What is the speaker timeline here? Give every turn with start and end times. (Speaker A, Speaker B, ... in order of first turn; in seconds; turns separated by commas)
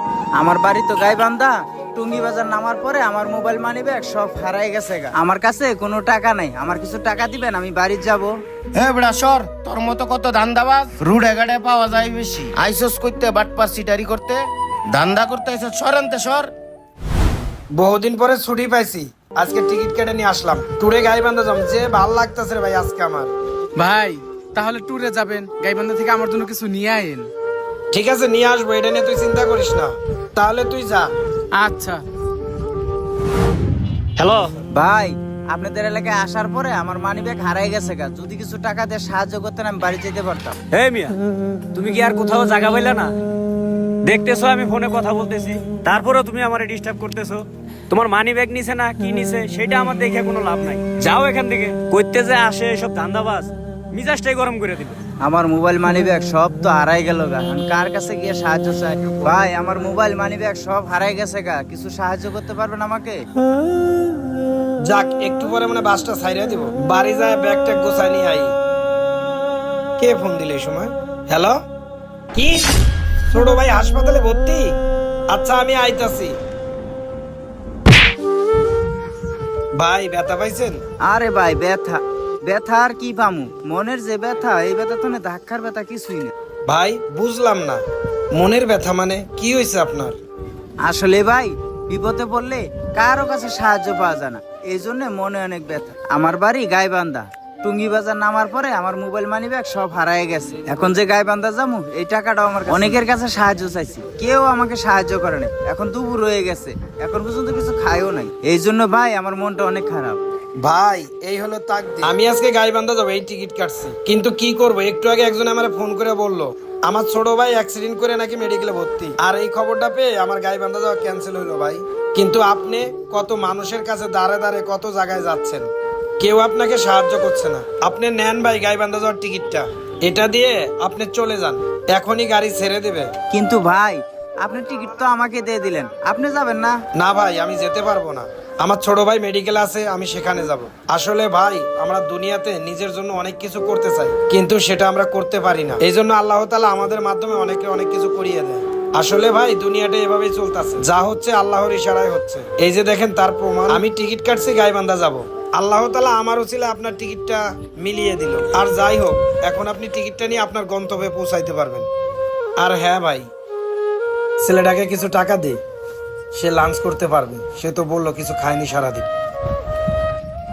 Speaker A: 0.4-8.3, Speaker B: 8.8-16.5, Speaker C: 17.7-23.3, Speaker D: 23.8-27.3, Speaker C: 27.9-31.1, Speaker D: 31.6-32.0, Speaker E: 34.2-34.5, Speaker A: 34.7-40.6, Speaker E: 40.7-41.2, Speaker E: 41.7-43.1, Speaker E: 44.0-55.0, Speaker A: 55.2-63.3, Speaker C: 64.8-68.5, Speaker C: 70.0-71.6, Speaker C: 72.3-72.7, Speaker C: 73.3-74.8, Speaker C: 75.3-76.4, Speaker C: 79.7-80.8, Speaker A: 81.0-86.3, Speaker C: 86.7-90.2, Speaker A: 90.8-110.2, Speaker C: 110.6-133.1, Speaker A: 133.3-136.8, Speaker C: 136.9-161.9, Speaker C: 162.6-163.3, Speaker C: 164.4-165.6, Speaker C: 166.3-169.1